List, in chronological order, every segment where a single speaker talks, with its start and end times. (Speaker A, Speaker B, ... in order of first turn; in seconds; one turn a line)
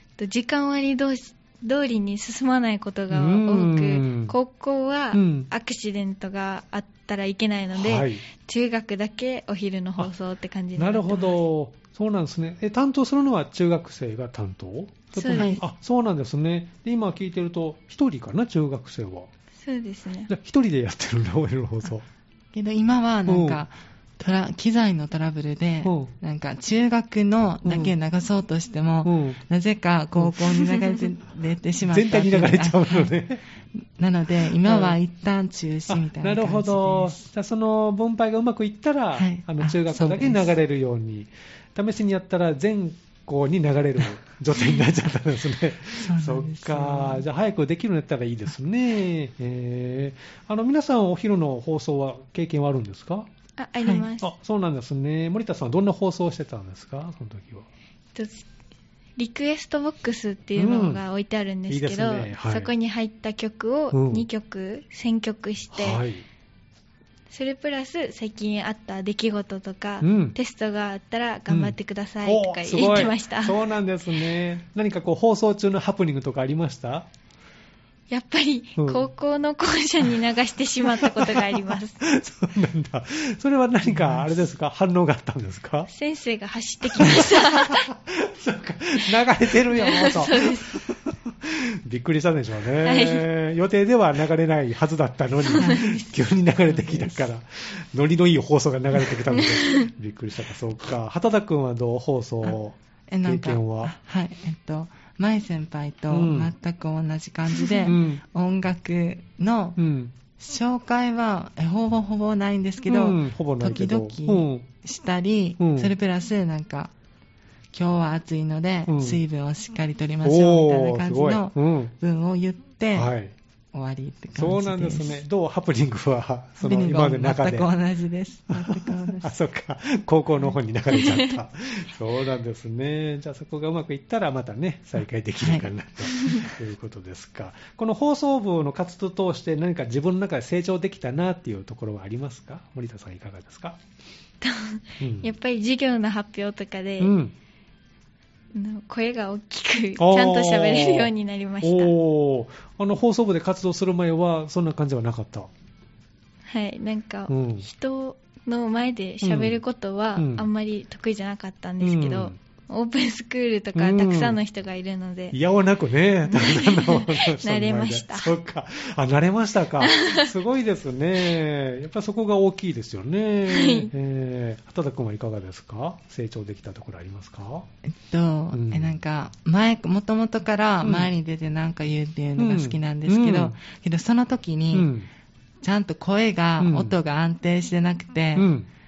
Speaker A: 0.2-11.4
Speaker B: 3.1-4.3
Speaker B: 5.1-5.5
Speaker B: 7.8-8.2
Speaker B: 10.8-19.3
Speaker A: 15.1-15.6
Speaker C: 15.3-15.6
Speaker A: 19.6-20.3
Speaker B: 20.3-22.1
Speaker C: 22.5-33.1
Speaker B: 23.3-23.6
Speaker B: 25.8-26.1
Speaker B: 27.6-28.0
Speaker B: 29.0-29.4
Speaker B: 30.2-30.5
Speaker B: 31.8-33.4
Speaker C: 33.7-37.2
Speaker B: 34.5-35.0
Speaker B: 35.9-53.3
Speaker C: 39.2-40.5
Speaker C: 46.0-47.3
Speaker A: 53.6-54.3
Speaker C: 53.8-54.1
Speaker B: 54.2-57.7
Speaker A: 58.1-58.5
Speaker A: 59.2-66.0
Speaker B: 60.6-61.0
Speaker B: 61.7-62.7
Speaker B: 63.9-64.3
Speaker B: 65.7-66.3
Speaker A: 67.3-73.6
Speaker B: 70.0-70.4
Speaker B: 71.5-77.1
Speaker A: 78.1-82.0
Speaker B: 78.8-79.0
Speaker B: 80.8-85.9
Speaker C: 83.9-84.3
Speaker A: 85.9-87.9
Speaker B: 86.8-104.0
Speaker A: 89.7-90.8
Speaker A: 92.8-93.3
Speaker A: 95.5-96.2
Speaker C: 95.6-95.8
Speaker C: 96.7-97.2
Speaker A: 99.3-99.9
Speaker C: 103.1-109.8
Speaker B: 106.1-106.5
Speaker B: 107.9-108.2
Speaker B: 109.8-110.1
Speaker C: 110.4-116.9
Speaker B: 112.8-114.7
Speaker B: 115.6-115.9
Speaker C: 117.7-123.1
Speaker B: 118.9-119.2
Speaker B: 120.2-121.9
Speaker B: 122.9-123.3
Speaker C: 123.7-125.2
Speaker B: 124.4-127.7
Speaker C: 126.6-129.3
Speaker B: 128.5-143.8
Speaker C: 135.4-135.7
Speaker A: 136.2-136.4
Speaker A: 144.4-147.2
Speaker B: 145.0-145.3
Speaker B: 147.0-147.3
Speaker A: 148.5-151.9
Speaker B: 150.0-155.5
Speaker A: 156.5-165.4
Speaker B: 157.3-157.7
Speaker B: 159.2-159.6
Speaker B: 160.2-160.5
Speaker B: 161.8-162.4
Speaker B: 163.8-164.4
Speaker B: 165.3-177.7
Speaker A: 166.2-168.3
Speaker A: 169.8-170.3
Speaker A: 173.5-173.9
Speaker C: 177.9-184.9
Speaker B: 178.5-179.0
Speaker B: 180.8-181.1
Speaker B: 182.4-183.6
Speaker B: 184.7-185.1
Speaker C: 185.6-188.5
Speaker B: 186.6-186.9
Speaker B: 188.4-188.7